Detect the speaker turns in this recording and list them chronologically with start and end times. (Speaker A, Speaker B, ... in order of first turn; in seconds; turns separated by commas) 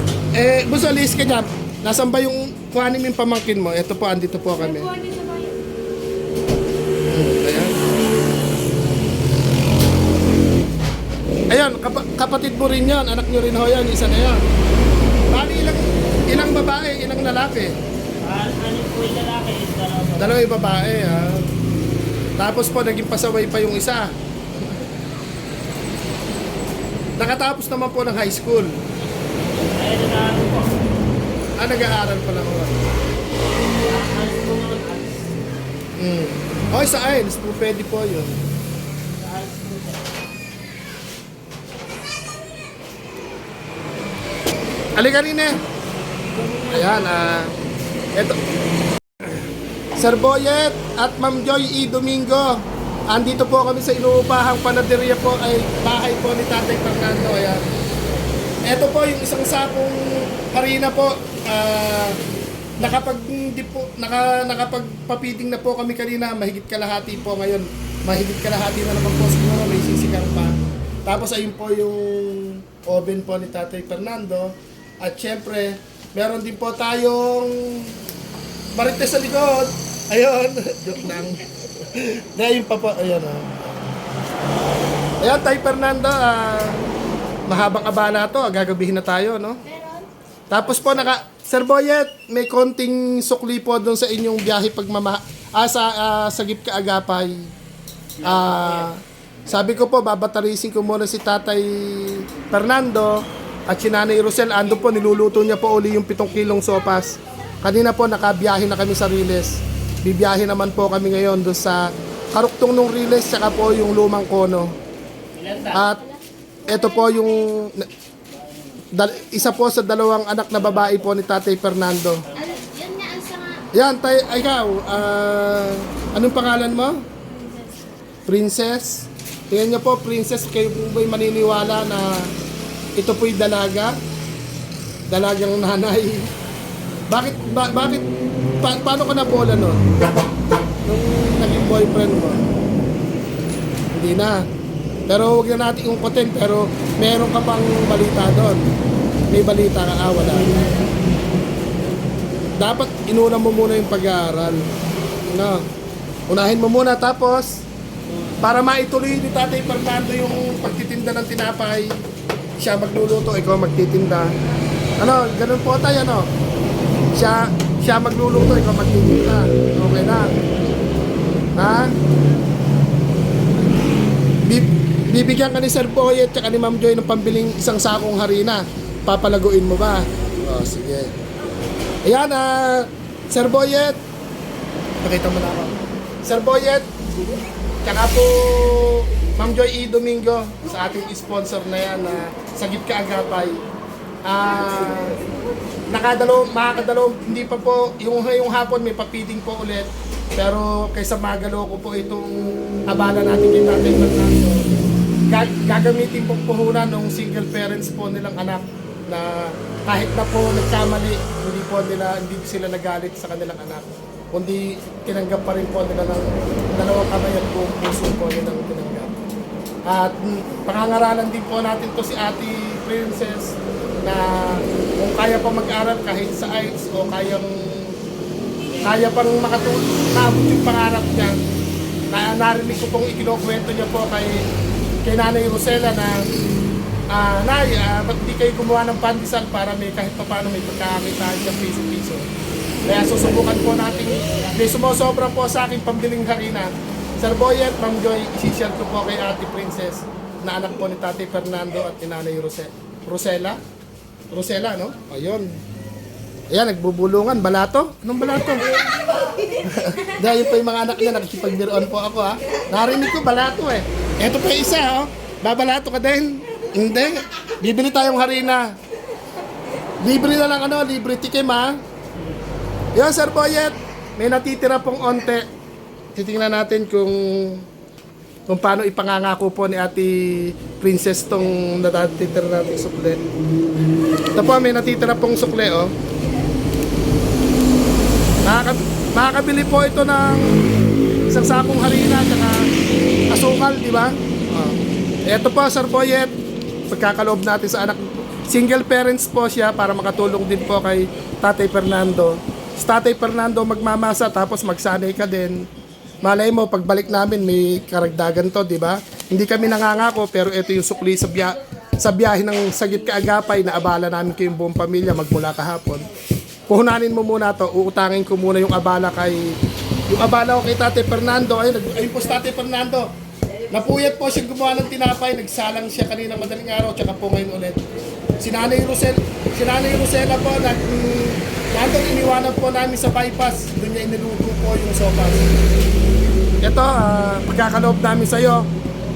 Speaker A: 0.3-4.9, Speaker B: 4.6-5.6, Speaker A: 7.1-7.8, Speaker A: 11.5-14.4, Speaker A: 15.3-17.8, Speaker C: 18.2-20.5, Speaker A: 20.2-21.4, Speaker A: 22.4-24.1, Speaker A: 27.2-28.7, Speaker C: 29.4-30.8, Speaker A: 31.6-32.9, Speaker C: 33.8-35.3, Speaker A: 36.0-38.4, Speaker C: 39.2-40.1, Speaker A: 45.0-45.6, Speaker C: 46.3-47.1, Speaker A: 46.7-47.5, Speaker A: 50.0-57.6, Speaker A: 58.7-62.2, Speaker A: 62.8-70.5, Speaker A: 71.1-78.0, Speaker A: 78.8-83.5, Speaker A: 85.2-86.8, Speaker A: 87.5-89.6, Speaker B: 89.7-90.1, Speaker A: 90.5-97.5, Speaker C: 90.6-91.2, Speaker C: 98.2-98.9, Speaker A: 98.2-111.8, Speaker A: 112.3-114.8, Speaker C: 115.3-115.9, Speaker B: 115.5-117.6, Speaker A: 115.7-116.0, Speaker A: 116.7-117.9, Speaker C: 118.3-119.0, Speaker A: 118.9-122.2, Speaker C: 120.5-121.1, Speaker C: 122.2-122.7, Speaker B: 122.4-123.7, Speaker A: 123.7-127.0, Speaker B: 127.3-128.0, Speaker A: 128.3-132.3, Speaker A: 133.0-133.9, Speaker A: 135.1-136.3, Speaker A: 137.1-138.1, Speaker A: 138.6-139.8, Speaker A: 140.9-142.5, Speaker A: 143.9-144.4, Speaker A: 145.1-148.6, Speaker A: 149.3-150.5, Speaker A: 152.6-154.7, Speaker A: 155.3-155.7, Speaker A: 156.3-157.6, Speaker C: 158.1-158.4, Speaker A: 158.4-162.0, Speaker A: 162.6-164.3, Speaker A: 165.0-166.3, Speaker A: 167.1-170.4, Speaker A: 171.6-171.9, Speaker A: 174.5-181.1, Speaker A: 182.1-184.0, Speaker A: 185.0-186.9, Speaker A: 187.8-193.6, Speaker A: 194.3-195.2, Speaker A: 195.9-204.7, Speaker A: 205.3-219.2, Speaker A: 219.9-227.9, Speaker C: 228.7-229.1, Speaker A: 228.8-231.4, Speaker A: 232.1-234.4, Speaker A: 235.1-236.3, Speaker A: 237.1-242.3, Speaker A: 242.9-246.7, Speaker C: 243.1-244.9, Speaker A: 247.2-253.6, Speaker A: 254.3-255.5, Speaker A: 256.5-258.8, Speaker A: 259.6-268.7, Speaker A: 270.0-271.8, Speaker A: 272.9-275.4, Speaker A: 276.2-277.6, Speaker A: 278.5-283.2, Speaker A: 284.4-285.9, Speaker A: 288.5-290.5, Speaker A: 291.3-292.7, Speaker A: 293.3-296.3, Speaker A: 296.9-305.6, Speaker A: 306.2-316.1, Speaker A: 316.7-319.5, Speaker A: 320.1-323.1, Speaker A: 323.7-327.8, Speaker A: 328.4-335.5, Speaker A: 336.6-338.7